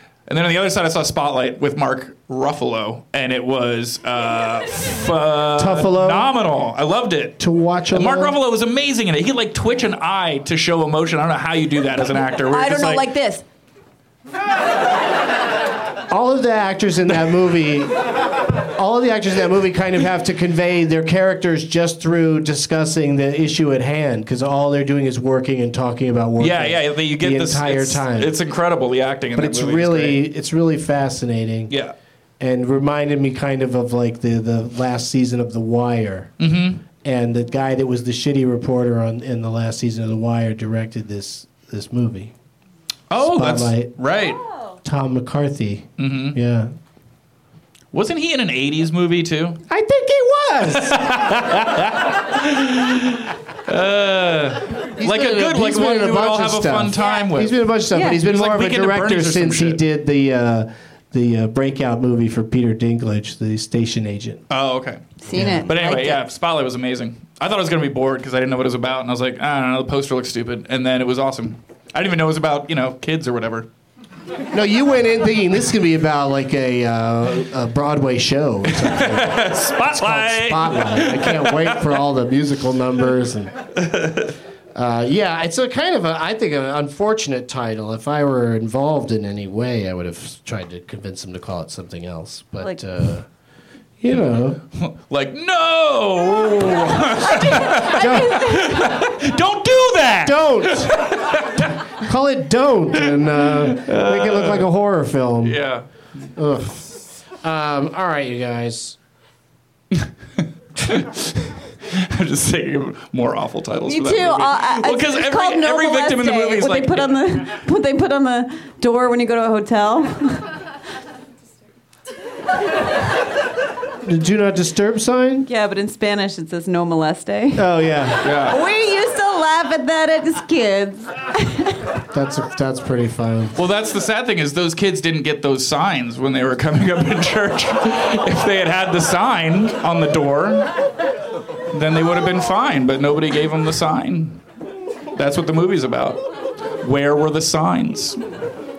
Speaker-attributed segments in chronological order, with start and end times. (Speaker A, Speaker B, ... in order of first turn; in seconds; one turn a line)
Speaker A: 0.3-7.4
Speaker B: 5.6-6.3
Speaker B: 7.4-8.3
Speaker A: 7.9-13.1
Speaker C: 12.5-13.4
Speaker B: 16.1-18.0
Speaker B: 18.8-28.3
Speaker A: 26.4-30.2
Speaker B: 29.4-31.7
Speaker B: 32.4-36.3
Speaker A: 36.4-36.8
Speaker B: 37.0-42.3
Speaker A: 43.1-44.4
Speaker B: 43.2-43.9
Speaker B: 44.8-46.7
Speaker A: 46.0-46.4
Speaker A: 47.9-49.6
Speaker B: 49.7-51.1
Speaker A: 50.7-59.8
Speaker B: 55.0-64.4
Speaker C: 57.9-58.2
Speaker A: 64.5-65.1
Speaker C: 65.2-66.2
Speaker B: 65.3-65.6
Speaker A: 65.7-73.7
Speaker B: 74.5-83.5
Speaker A: 78.8-81.7
Speaker A: 83.9-84.3
Speaker B: 84.8-93.3
Speaker B: 94.0-94.6
Speaker A: 94.8-101.7
Speaker C: 97.2-99.0
Speaker B: 97.9-98.4
Speaker B: 100.2-100.9
Speaker B: 102.0-105.6
Speaker A: 103.8-104.6
Speaker A: 105.4-105.8
Speaker B: 106.4-109.0
Speaker A: 110.8-117.2
Speaker C: 113.9-120.5
Speaker B: 124.0-125.5
Speaker C: 125.5-127.7
Speaker B: 127.6-128.3
Speaker A: 128.2-128.6
Speaker C: 128.3-131.8
Speaker B: 132.1-133.5
Speaker A: 133.6-140.7
Speaker A: 141.7-144.4
Speaker A: 145.2-146.2
Speaker A: 146.8-148.2